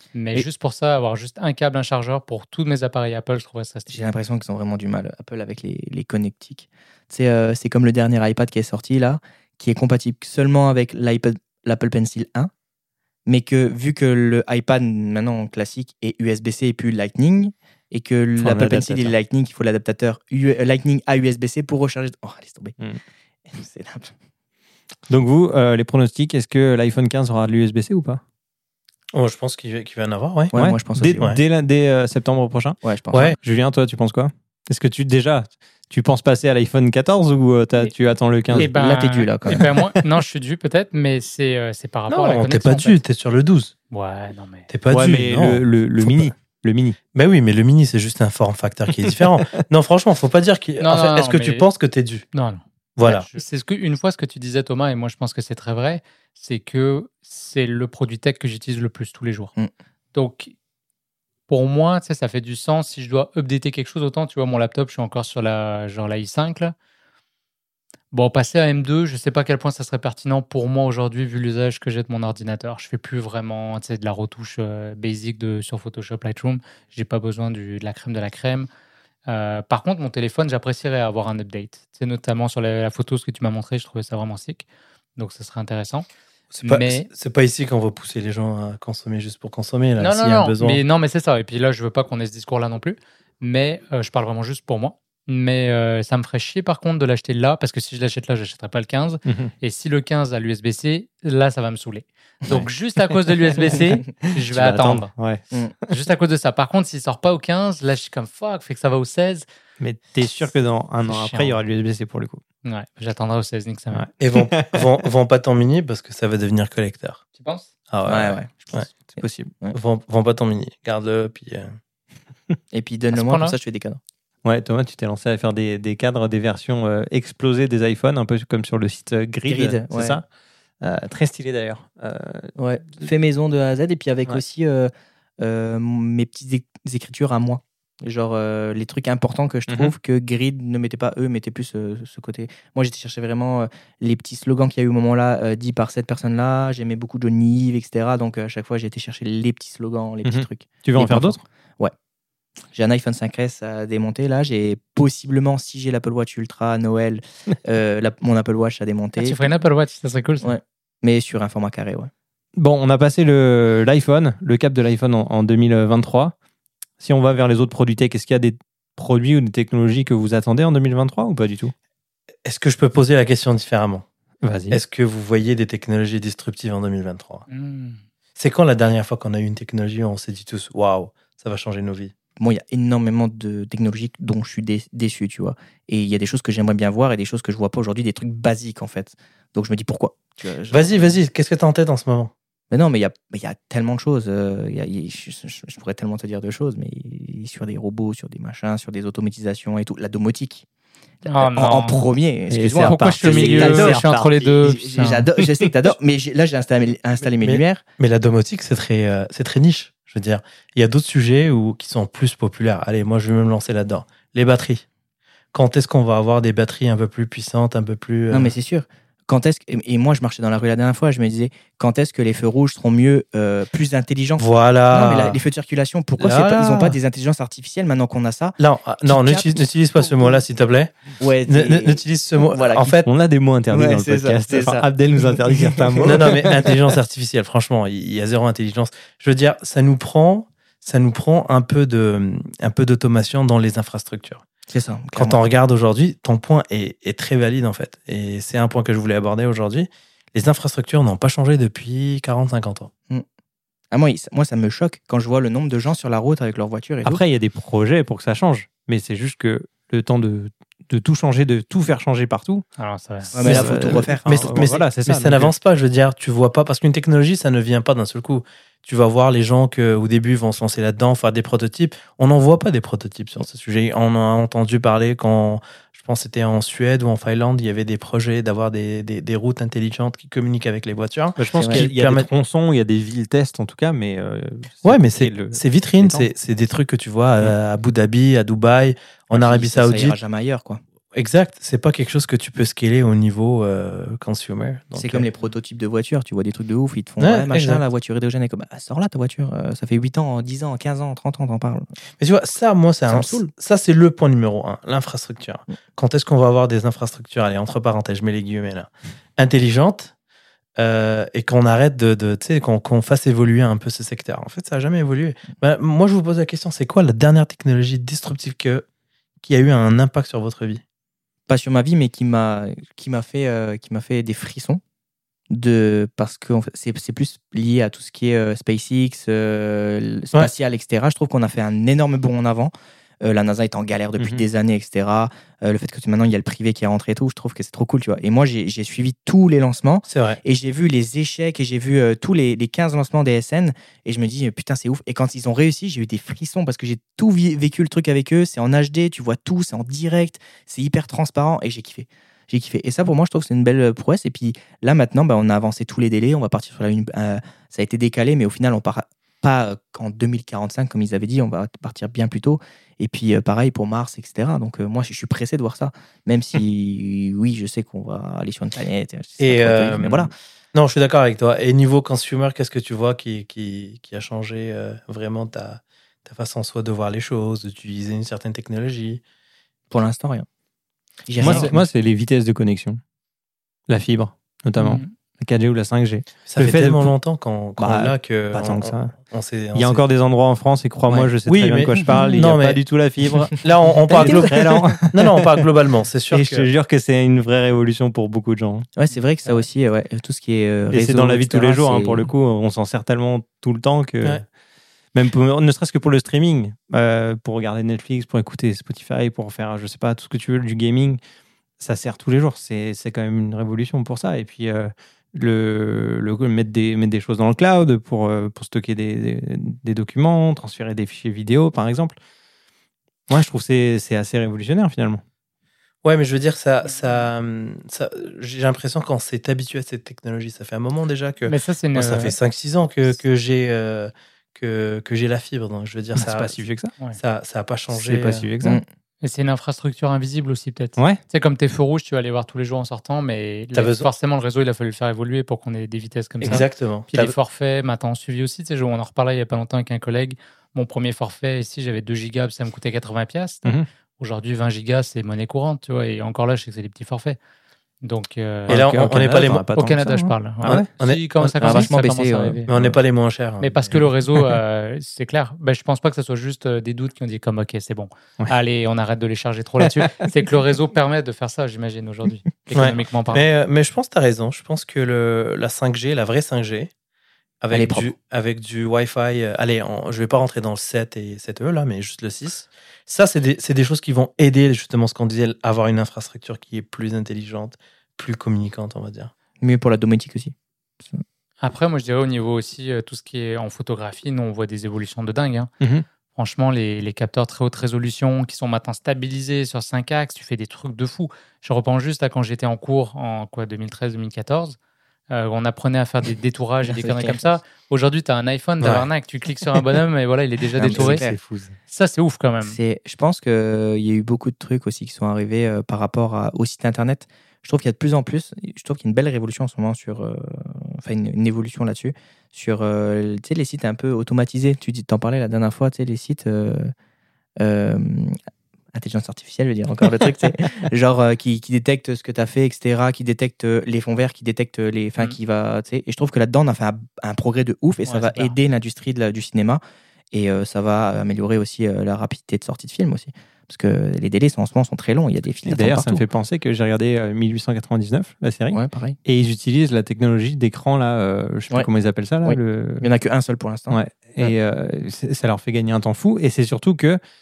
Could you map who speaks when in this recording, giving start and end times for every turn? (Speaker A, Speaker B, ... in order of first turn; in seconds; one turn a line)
Speaker A: 0.1-4.0
Speaker B: 3.9-12.5
Speaker B: 13.3-22.8
Speaker C: 18.4-19.2
Speaker B: 23.5-24.1
Speaker C: 25.1-28.2
Speaker D: 29.1-30.5
Speaker B: 30.5-31.3
Speaker C: 30.5-32.8
Speaker B: 32.8-33.4
Speaker C: 33.4-38.7
Speaker A: 38.5-43.0
Speaker B: 38.5-39.6
Speaker C: 39.5-40.0
Speaker D: 42.1-43.7
Speaker A: 43.9-44.7
Speaker D: 44.7-46.3
Speaker C: 44.9-47.0
Speaker D: 47.1-52.2
Speaker A: 50.8-51.7
Speaker A: 52.3-59.5
Speaker D: 53.0-53.3
Speaker A: 60.1-60.5
Speaker A: 61.5-66.8
Speaker A: 68.1-78.7
Speaker A: 79.3-84.7
Speaker A: 85.2-86.1
Speaker D: 86.5-90.8
Speaker A: 86.6-87.1
Speaker A: 90.0-105.1
Speaker C: 99.3-99.5
Speaker C: 102.5-103.2
Speaker C: 104.5-106.0
Speaker A: 105.9-109.5
Speaker C: 109.8-112.4
Speaker A: 111.1-111.6
Speaker A: 112.6-114.1
Speaker C: 113.9-115.0
Speaker D: 114.2-117.2
Speaker A: 117.3-117.7
Speaker D: 117.9-118.9
Speaker B: 118.0-119.8
Speaker C: 119.2-119.5
Speaker D: 119.7-121.8
Speaker B: 122.7-124.0
Speaker A: 123.1-123.6
Speaker C: 124.5-130.2
Speaker B: 129.5-130.2
Speaker C: 130.8-133.1
Speaker B: 132.6-151.9
Speaker C: 139.7-139.9
Speaker C: 150.2-151.4
Speaker B: 152.7-159.4
Speaker A: 159.2-160.6
Speaker B: 160.4-162.1
Speaker C: 162.6-166.3
Speaker C: 167.0-171.7
Speaker D: 172.4-174.1
Speaker C: 174.4-174.8
Speaker D: 174.7-177.4
Speaker A: 177.5-178.0
Speaker D: 178.4-182.1
Speaker B: 182.4-191.2
Speaker D: 190.7-192.3
Speaker B: 192.7-200.7
Speaker A: 201.3-202.0
Speaker B: 201.3-207.8
Speaker C: 202.5-204.5
Speaker A: 202.8-205.3
Speaker D: 207.4-214.8
Speaker D: 215.5-218.5
Speaker B: 218.3-230.4
Speaker D: 224.4-225.4
Speaker D: 226.2-227.0
Speaker D: 228.6-233.1
Speaker B: 231.2-233.0
Speaker C: 233.1-236.6
Speaker B: 233.7-236.3
Speaker D: 236.0-244.4
Speaker B: 244.7-245.4
Speaker D: 245.2-252.9
Speaker B: 253.9-257.2
Speaker C: 257.0-262.6
Speaker A: 262.8-263.6
Speaker B: 263.3-264.6
Speaker C: 263.3-265.5
Speaker D: 264.3-282.3
Speaker C: 281.4-286.3
Speaker B: 281.6-281.8
Speaker D: 284.8-290.2
Speaker B: 289.3-290.8
Speaker D: 291.1-295.3
Speaker B: 295.0-301.9
Speaker D: 297.2-297.8
Speaker D: 302.2-310.1
Speaker B: 303.1-303.5
Speaker D: 310.8-318.9
Speaker D: 319.4-320.8
Speaker B: 321.5-324.8
Speaker B: 325.5-370.3
Speaker C: 334.2-334.4
Speaker D: 340.1-340.4
Speaker D: 369.4-379.2
Speaker B: 379.9-380.5
Speaker B: 381.3-381.8
Speaker C: 381.4-383.0
Speaker D: 381.5-381.7
Speaker C: 383.9-387.1
Speaker A: 384.8-385.1
Speaker D: 386.5-390.0
Speaker C: 387.8-389.1
Speaker C: 389.8-395.5
Speaker D: 391.5-392.8
Speaker B: 392.1-392.4
Speaker D: 393.6-394.6
Speaker B: 394.1-395.1
Speaker D: 395.1-396.7
Speaker C: 396.3-398.9
Speaker B: 399.0-402.2
Speaker C: 400.9-404.4
Speaker C: 405.1-411.2
Speaker C: 411.8-422.2
Speaker C: 423.3-425.2
Speaker D: 426.0-436.6
Speaker A: 431.5-432.4
Speaker C: 436.2-436.9
Speaker D: 437.2-438.5
Speaker C: 437.9-438.8
Speaker A: 439.2-457.4
Speaker D: 443.7-444.1
Speaker D: 446.4-447.4
Speaker A: 458.0-458.8
Speaker C: 458.7-460.9
Speaker D: 458.7-459.8
Speaker A: 459.7-462.7
Speaker D: 460.6-461.9
Speaker B: 461.6-462.9
Speaker D: 462.7-464.0
Speaker A: 463.6-473.4
Speaker C: 469.8-470.3
Speaker D: 472.7-476.9
Speaker D: 477.6-489.3
Speaker B: 477.7-478.1
Speaker B: 489.6-490.5
Speaker A: 491.6-495.7
Speaker A: 496.4-504.8
Speaker A: 505.3-511.2
Speaker B: 506.8-507.4
Speaker D: 508.8-509.1
Speaker B: 510.8-511.4
Speaker C: 511.0-511.7
Speaker A: 511.9-512.8
Speaker B: 512.6-526.9
Speaker B: 527.6-528.4
Speaker B: 528.9-539.8
Speaker A: 538.1-538.5
Speaker B: 540.3-546.2
Speaker C: 545.7-553.1
Speaker B: 548.7-549.2
Speaker B: 552.5-554.5
Speaker C: 553.9-557.2